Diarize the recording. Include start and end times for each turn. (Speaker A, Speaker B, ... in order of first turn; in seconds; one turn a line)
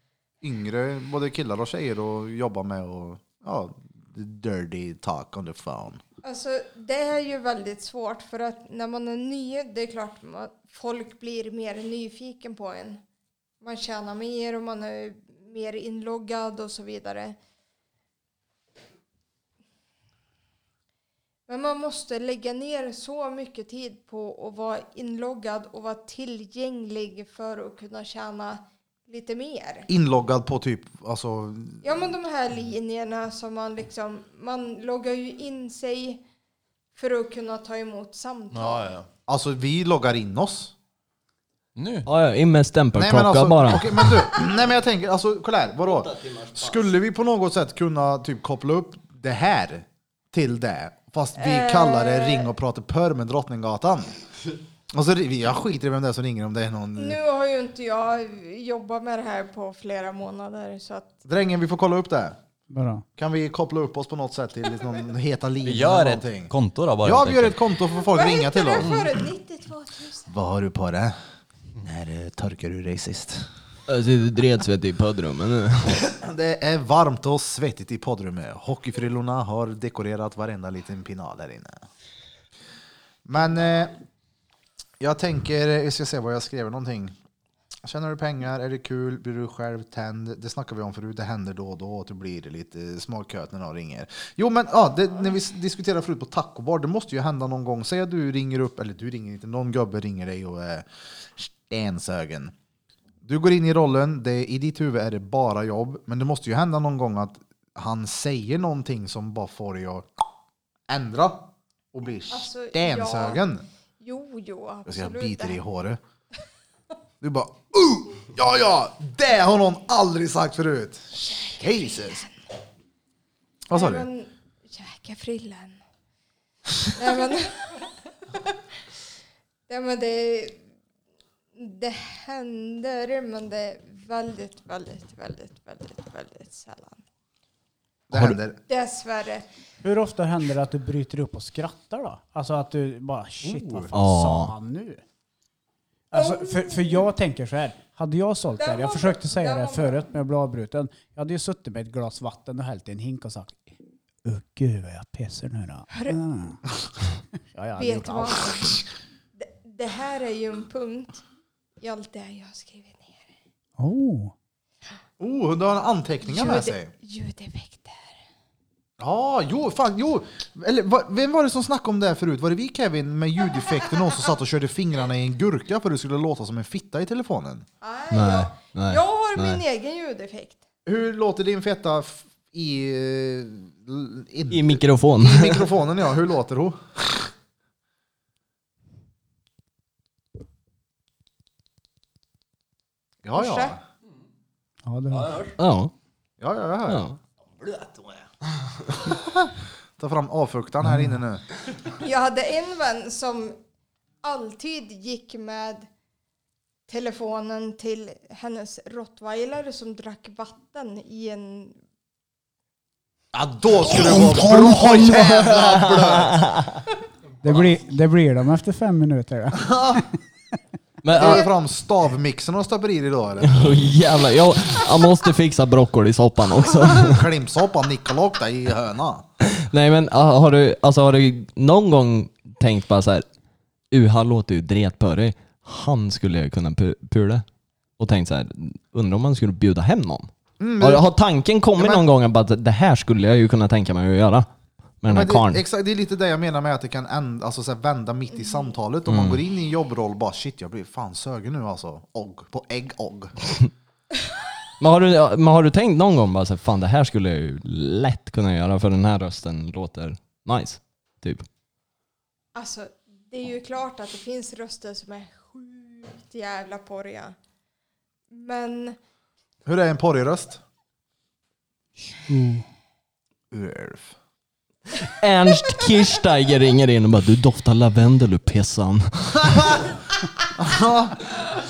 Speaker A: 0.4-6.0
Speaker B: 6.2-13.0
Speaker B: 13.6-17.4
Speaker B: 21.5-29.9
Speaker A: 29.9-31.8
Speaker B: 31.8-36.2
Speaker B: 37.0-38.9
Speaker C: 38.5-39.1
Speaker A: 39.3-40.7
Speaker C: 41.8-42.1
Speaker D: 42.1-44.0
Speaker A: 42.9-54.1
Speaker B: 51.4-52.5
Speaker A: 54.9-57.2
Speaker B: 57.0-61.1
Speaker A: 61.2-62.4
Speaker E: 62.7-63.0
Speaker A: 63.2-69.0
Speaker C: 65.6-67.6
Speaker B: 67.9-70.3
Speaker C: 68.8-69.1
Speaker A: 70.3-71.2
Speaker A: 71.8-73.5
Speaker D: 73.9-76.0
Speaker A: 76.1-81.9
Speaker A: 83.3-83.9
Speaker A: 85.0-87.1
Speaker A: 87.8-102.5
Speaker A: 103.3-110.1
Speaker A: 110.9-113.6
Speaker B: 112.3-113.5
Speaker B: 114.0-115.6
Speaker A: 114.9-116.0
Speaker A: 117.2-122.2
Speaker B: 121.2-122.3
Speaker A: 123.7-124.1
Speaker B: 123.7-125.8
Speaker B: 126.9-128.6
Speaker B: 129.7-130.6
Speaker B: 131.6-137.0
Speaker A: 138.1-138.6
Speaker B: 138.7-139.5
Speaker E: 139.8-145.0
Speaker A: 143.4-143.9
Speaker D: 143.9-144.5
Speaker E: 146.1-156.6
Speaker B: 146.1-147.1
Speaker B: 148.6-150.1
Speaker B: 155.9-156.2
Speaker E: 157.5-158.4
Speaker B: 157.8-158.8
Speaker B: 159.4-161.2
Speaker B: 161.8-163.4
Speaker E: 163.8-164.3
Speaker A: 165.2-166.9
Speaker B: 166.2-168.2
Speaker A: 169.0-177.7
Speaker B: 177.8-180.6
Speaker D: 178.1-179.6
Speaker A: 180.9-187.3
Speaker D: 184.5-185.7
Speaker A: 193.2-193.8
Speaker B: 193.3-193.8
Speaker E: 194.9-195.5
Speaker C: 195.1-195.6
Speaker D: 195.6-195.9
Speaker A: 196.4-197.1
Speaker D: 196.9-197.2
Speaker C: 197.6-198.2
Speaker A: 199.4-201.4
Speaker E: 200.8-201.2
Speaker B: 202.0-203.6
Speaker B: 204.2-205.9
Speaker B: 206.9-211.8
Speaker A: 213.3-216.6
Speaker D: 214.1-216.8
Speaker E: 217.4-220.1
Speaker A: 219.5-220.1
Speaker D: 221.0-221.4
Speaker A: 221.1-223.6
Speaker D: 223.4-227.3
Speaker A: 226.8-229.3
Speaker D: 229.5-233.2
Speaker D: 233.9-237.4
Speaker D: 238.0-240.3
Speaker A: 240.6-241.1
Speaker D: 240.8-244.5
Speaker A: 241.8-242.1
Speaker D: 245.0-245.6
Speaker A: 245.1-253.3
Speaker D: 249.1-249.4
Speaker D: 254.8-261.4
Speaker B: 262.6-267.4
Speaker B: 268.3-269.0
Speaker A: 269.7-270.6
Speaker E: 272.1-272.7
Speaker A: 273.5-274.1
Speaker D: 275.2-279.9
Speaker A: 280.6-281.4